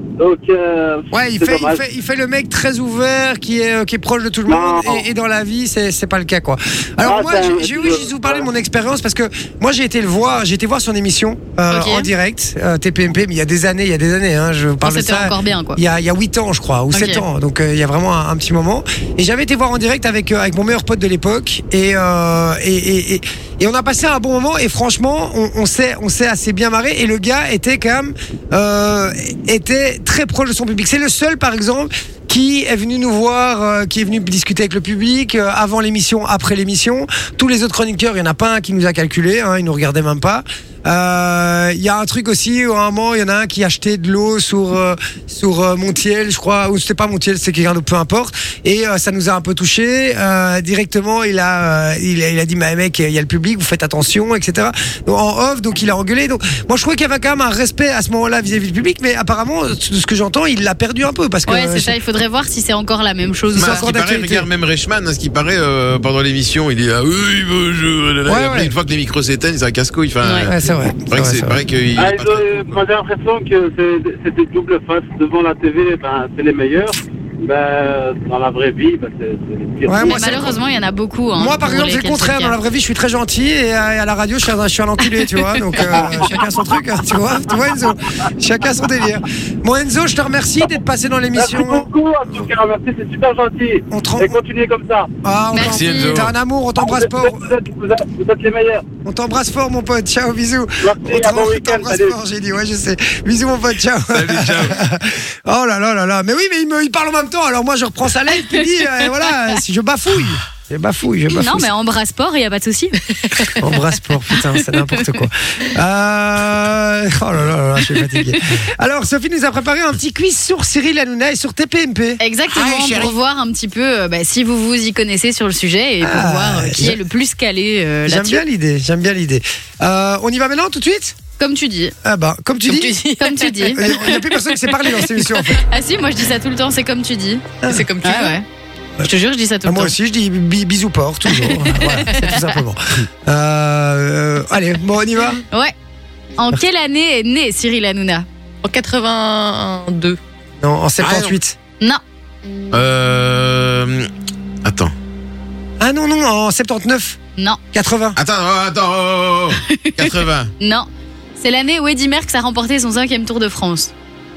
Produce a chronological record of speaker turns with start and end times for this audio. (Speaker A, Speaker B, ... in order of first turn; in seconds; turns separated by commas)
Speaker A: 0.2-1.8, Speaker B: 1.1-61.9, Speaker A: 4.5-5.1, Speaker A: 7.0-8.5, Speaker C: 11.7-12.1, Speaker C: 14.8-15.8, Speaker C: 16.9-17.2, Speaker C: 61.5-63.9, Speaker B: 63.5-64.5, Speaker D: 63.5-72.8, Speaker B: 68.3-68.7, Speaker C: 70.2-70.5, Speaker B: 70.5-71.6, Speaker A: 72.0-80.5, Speaker B: 79.9-80.6, Speaker C: 80.0-82.6, Speaker B: 81.4-92.5, Speaker C: 85.2-86.2, Speaker A: 85.9-86.4, Speaker A: 91.3-95.1, Speaker B: 93.9-94.4, Speaker B: 95.2-97.5, Speaker C: 95.5-96.2, Speaker D: 95.6-96.3, Speaker A: 96.8-98.8, Speaker B: 99.0-111.7, Speaker A: 100.8-102.2, Speaker D: 104.1-104.8, Speaker C: 108.5-109.0, Speaker C: 111.3-113.6, Speaker B: 113.6-122.2, Speaker C: 122.2-128.4, Speaker D: 122.5-123.2, Speaker B: 126.0-127.0, Speaker B: 128.1-131.2, Speaker C: 131.4-131.9, Speaker B: 132.0-132.9, Speaker E: 132.7-134.2, Speaker C: 133.2-133.8, Speaker B: 133.8-135.6, Speaker C: 135.6-138.4, Speaker E: 137.7-138.4, Speaker C: 139.0-139.9, Speaker B: 139.7-145.4, Speaker C: 141.4-142.4, Speaker C: 146.4-148.2, Speaker E: 148.6-150.2, Speaker B: 150.6-151.6, Speaker D: 151.0-151.4, Speaker D: 152.7-154.1, Speaker D: 154.6-154.9, Speaker B: 155.8-157.2, Speaker B: 157.7-158.2, Speaker D: 158.2-160.5, Speaker C: 159.7-163.9